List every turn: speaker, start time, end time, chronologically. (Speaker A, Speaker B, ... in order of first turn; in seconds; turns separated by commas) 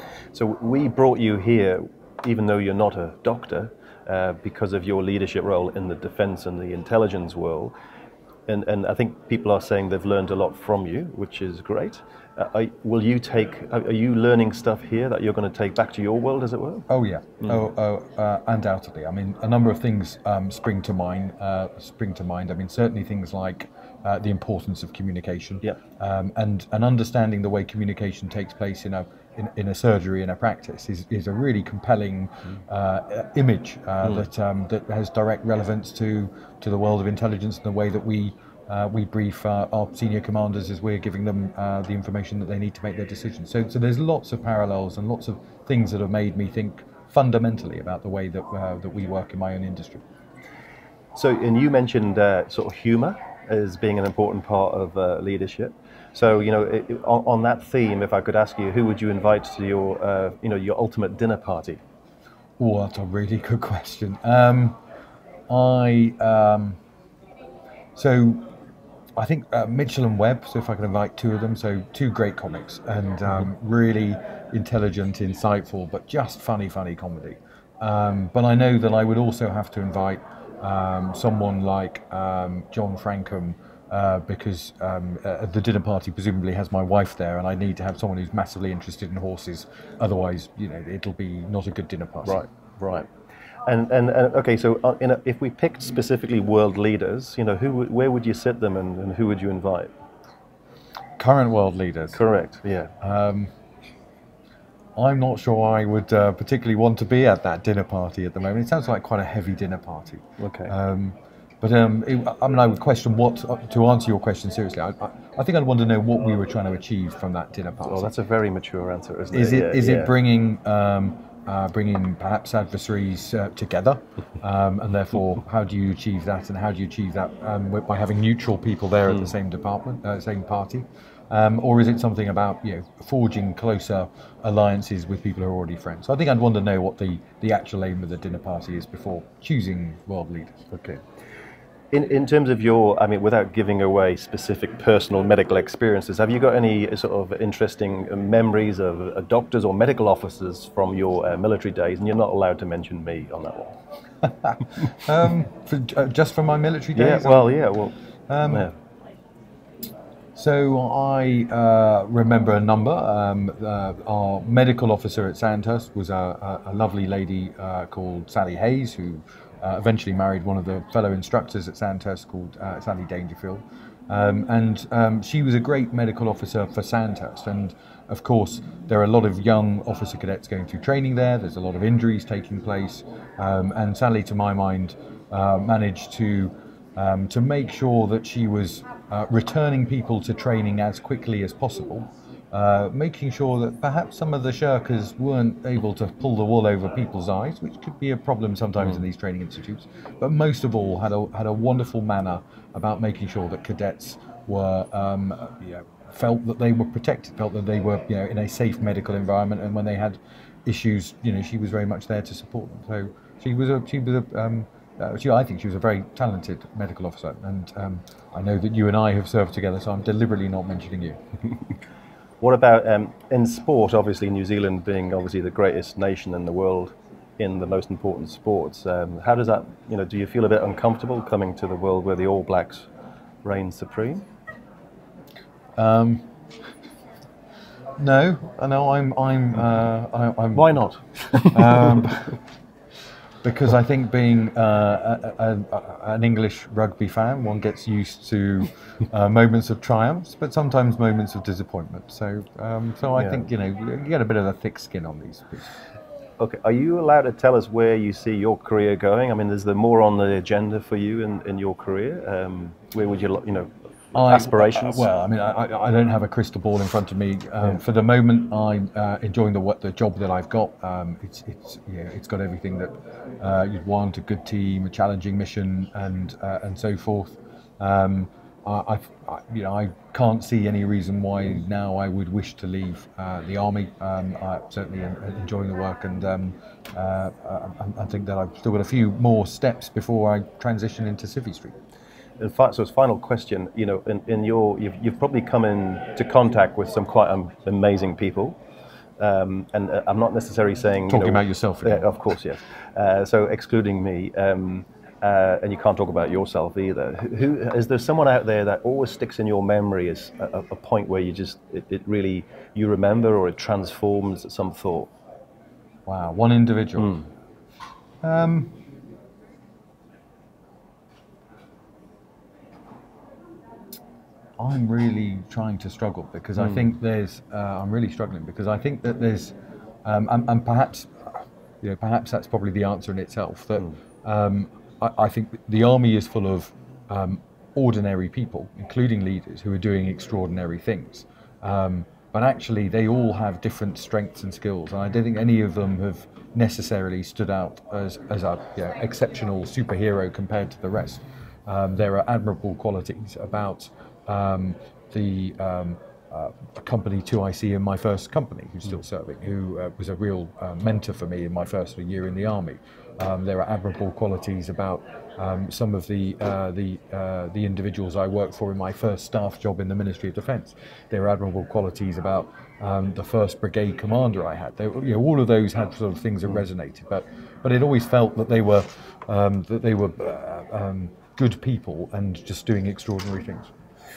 Speaker A: 0.3-7.7, Speaker A: 8.5-16.9, Speaker B: 16.9-50.0, Speaker A: 17.4-17.7, Speaker A: 51.1-61.8, Speaker B: 62.6-64.8, Speaker B: 65.5-66.8, Speaker B: 68.0-68.5, Speaker B: 69.2-92.4, Speaker A: 92.2-93.1, Speaker A: 93.7-99.9, Speaker B: 101.2-102.2, Speaker A: 102.1-102.9, Speaker B: 103.0-103.5, Speaker B: 105.0-118.1, Speaker A: 110.4-110.7, Speaker A: 117.9-120.1, Speaker B: 119.3-140.7, Speaker A: 140.7-141.0, Speaker A: 141.9-153.8, Speaker B: 154.4-157.6, Speaker A: 157.0-157.9, Speaker B: 158.3-158.7, Speaker A: 158.5-158.7, Speaker B: 160.3-221.2, Speaker A: 222.4-232.9, Speaker A: 233.4-234.2, Speaker B: 235.8-236.3, Speaker B: 238.0-240.9, Speaker A: 240.6-241.9, Speaker B: 241.4-242.4, Speaker B: 243.4-255.7, Speaker A: 253.2-253.5, Speaker A: 256.4-265.1, Speaker B: 264.1-291.8, Speaker A: 292.4-298.6, Speaker A: 299.2-315.1, Speaker B: 301.1-302.1, Speaker B: 316.1-317.3, Speaker B: 318.2-318.8, Speaker B: 324.6-383.7